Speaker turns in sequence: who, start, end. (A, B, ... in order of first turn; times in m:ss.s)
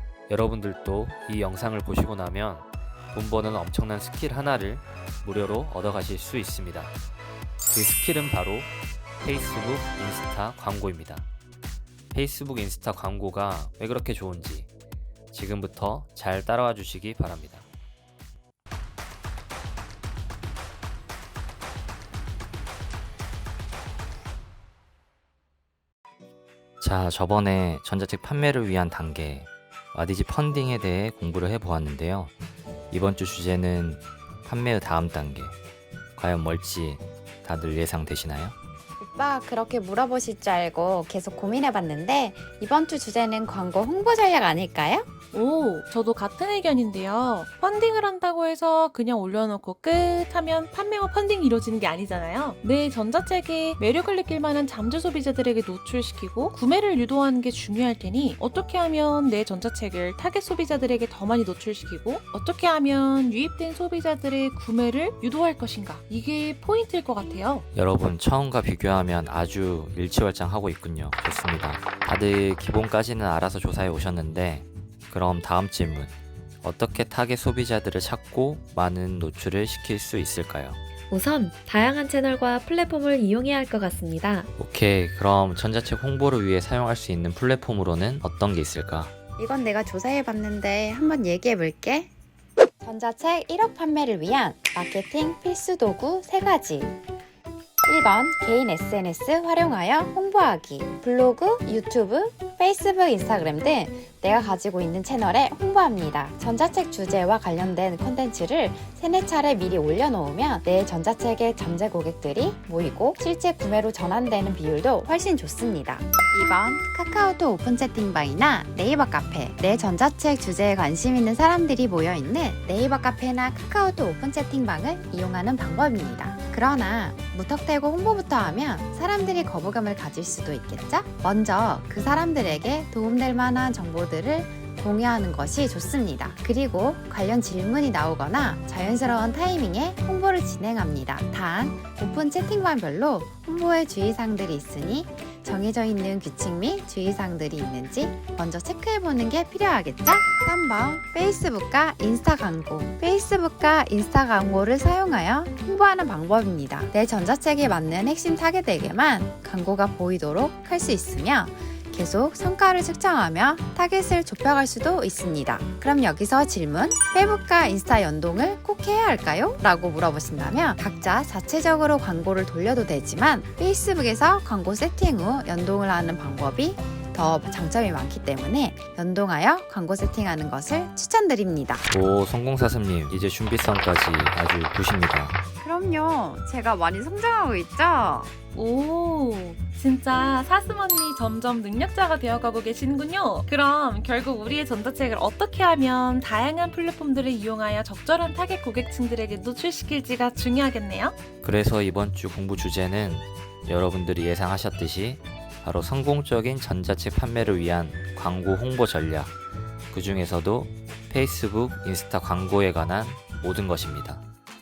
0:00.3-0:06.9 A
0:07.7-0:11.3 A
0:12.1-0:14.7 A
0:15.3-0:17.6 A
0:26.8-0:32.3 A
0:32.9-0:35.6 A
0:36.2-0:38.6 A
0:39.0-0:45.1 B
0:45.3-1:07.7 C
1:07.8-1:20.8 A
1:21.1-1:24.5 D
1:24.6-1:29.1 A
1:29.4-1:32.1 B
1:32.8-1:37.0 B
1:37.8-3:01.9 B
3:01.9-3:05.4 A
3:05.6-3:08.3 B
3:08.5-3:21.2 C
3:21.4-3:29.3 A
3:29.9-3:34.2 A